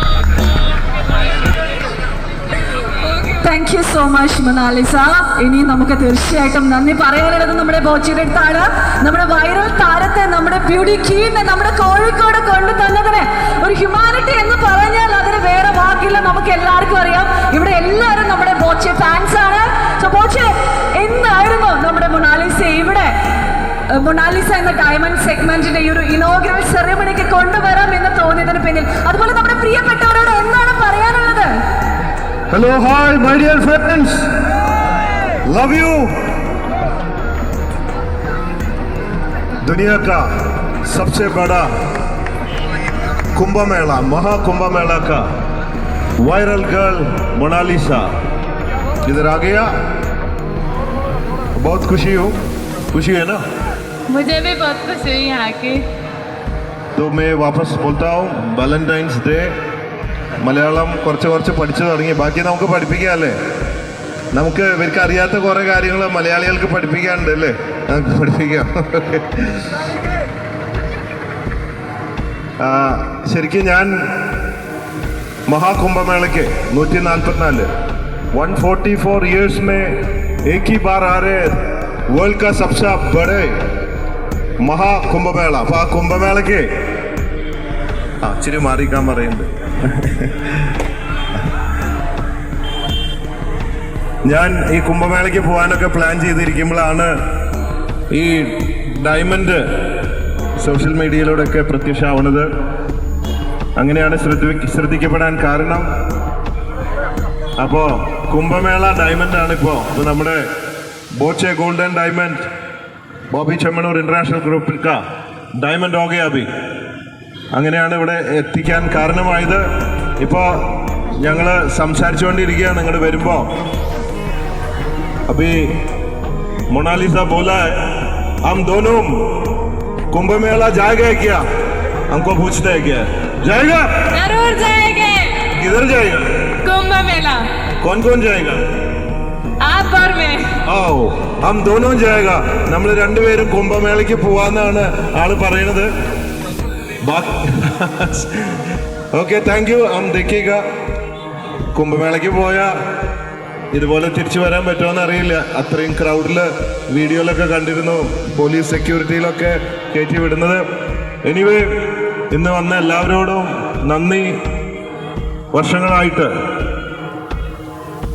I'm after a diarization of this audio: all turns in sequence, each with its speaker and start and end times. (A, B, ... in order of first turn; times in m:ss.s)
0:03.4-0:23.1 A
0:23.9-0:31.5 A
0:32.5-0:34.3 B
0:35.5-0:36.1 B
0:39.6-0:40.2 B
0:40.9-0:41.7 B
0:43.4-0:45.2 B
0:46.2-0:48.1 B
0:49.1-0:49.7 B
0:51.6-0:52.3 B
0:52.9-0:53.4 B
0:54.1-0:55.8 C
0:57.0-0:59.5 B
1:00.4-1:03.4 B
1:04.3-1:09.7 B
1:12.6-1:13.9 B
1:15.5-1:17.7 B
1:18.3-1:20.0 B
1:20.5-1:21.6 B
1:22.1-1:23.5 B
1:24.6-1:26.7 B
1:28.2-1:30.7 B
1:34.3-1:37.1 B
1:38.1-1:39.6 B
1:40.6-1:42.5 B
1:43.8-1:45.9 B
1:47.6-1:50.4 B
1:51.2-1:52.4 B
1:53.3-1:55.0 B
1:55.6-1:56.5 B
1:57.5-1:59.6 B
2:00.2-2:00.5 B
2:01.2-2:03.5 B
2:05.3-2:05.7 B
2:06.7-2:07.8 B
2:08.4-2:09.2 B
2:10.1-2:11.4 B
2:12.1-2:13.9 B
2:14.1-2:15.4 C
2:15.5-2:16.3 B
2:16.6-2:17.4 C
2:17.8-2:18.6 B
2:19.6-2:20.5 C
2:20.7-2:25.9 B
2:27.0-2:28.6 B
2:29.1-2:30.6 B
2:31.7-2:32.7 B
2:33.7-2:40.6 B
2:41.2-2:41.7 B
2:42.3-2:44.3 B
2:45.5-2:46.3 B